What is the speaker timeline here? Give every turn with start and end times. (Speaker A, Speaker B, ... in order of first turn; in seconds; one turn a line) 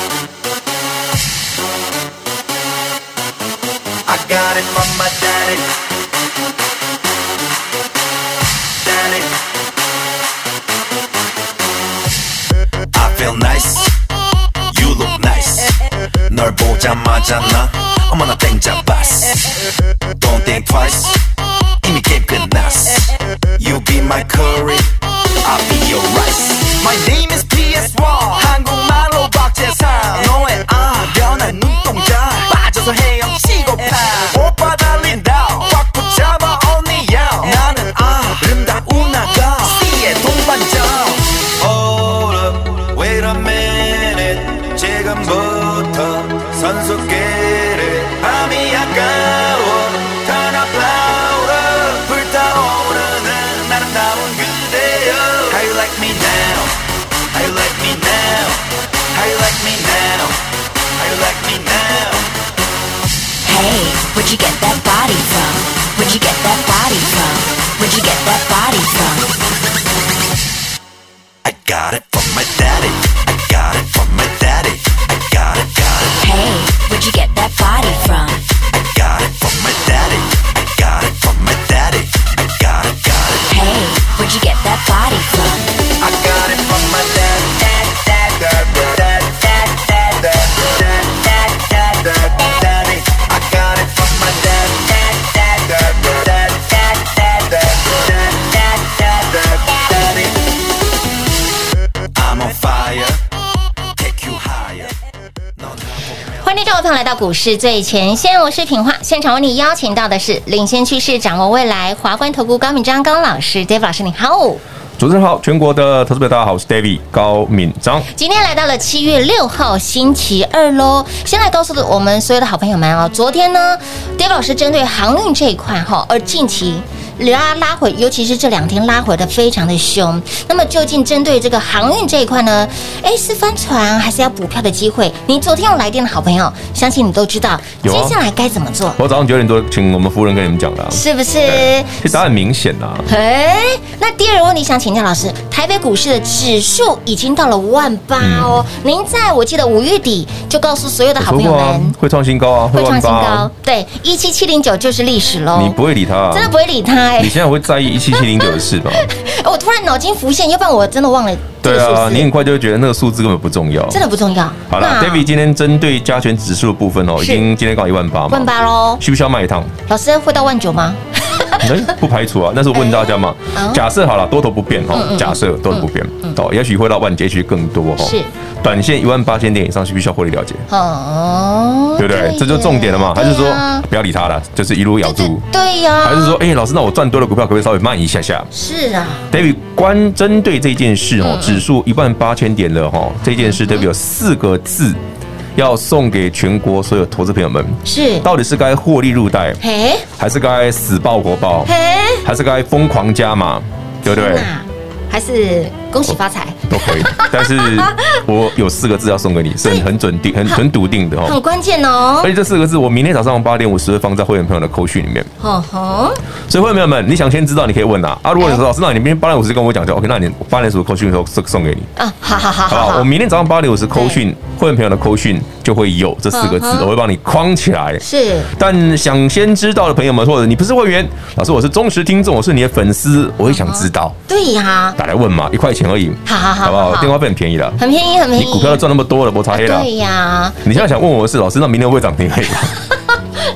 Speaker A: 4.0-5.7
Speaker A: 8.8-9.4
Speaker A: 12.9-13.9
Speaker A: 14.7-19.6
Speaker A: 20.2-21.2
Speaker A: 21.8-24.9
Speaker A: 25.4-56.8
Speaker A: 57.3-60.4
Speaker A: 61.0-62.3
Speaker B: 63.4-69.3
Speaker A: 71.4-76.1
Speaker B: 76.2-78.4
Speaker A: 78.7-83.5
Speaker B: 83.5-85.7
Speaker A: 86.0-100.4
Speaker A: 102.1-103.2
Speaker A: 103.9-105.0
Speaker A: 105.6-106.3
Speaker C: 106.4-114.6
Speaker D: 115.0-118.1
Speaker C: 118.1-139.0
Speaker D: 137.8-138.2
Speaker D: 139.0-143.1
Speaker C: 140.9-142.2
Speaker C: 143.1-151.9
Speaker D: 148.2-148.6
Speaker D: 151.2-153.5
Speaker C: 152.7-155.8
Speaker D: 155.5-156.5
Speaker C: 156.3-157.4
Speaker D: 157.2-159.1
Speaker C: 158.1-162.3
Speaker D: 161.6-164.0
Speaker C: 163.9-165.2
Speaker D: 164.7-169.7
Speaker C: 167.2-167.4
Speaker C: 168.3-169.0
Speaker C: 169.9-171.9
Speaker D: 171.6-180.6
Speaker C: 172.7-173.8
Speaker C: 174.9-176.4
Speaker C: 178.0-178.3
Speaker C: 180.7-183.8
Speaker D: 182.0-185.4
Speaker C: 185.0-186.4
Speaker D: 186.0-188.5
Speaker C: 188.5-189.3
Speaker D: 189.3-195.0
Speaker C: 191.2-191.6
Speaker C: 193.4-193.8
Speaker D: 195.5-199.6
Speaker C: 197.8-198.3
Speaker C: 199.6-200.1
Speaker D: 200.2-201.7
Speaker C: 201.7-202.2
Speaker D: 202.2-204.5
Speaker C: 204.0-208.2
Speaker D: 206.7-211.4
Speaker C: 211.2-212.3
Speaker D: 212.2-215.3
Speaker C: 215.4-216.2
Speaker D: 216.5-221.9
Speaker C: 222.0-223.1
Speaker D: 222.7-234.2
Speaker C: 223.9-224.2
Speaker C: 226.3-226.9
Speaker C: 228.0-228.5
Speaker C: 233.4-235.0
Speaker D: 235.0-237.8
Speaker C: 236.2-237.1
Speaker C: 237.8-238.8
Speaker D: 238.3-239.9
Speaker C: 239.5-240.7
Speaker D: 240.6-242.7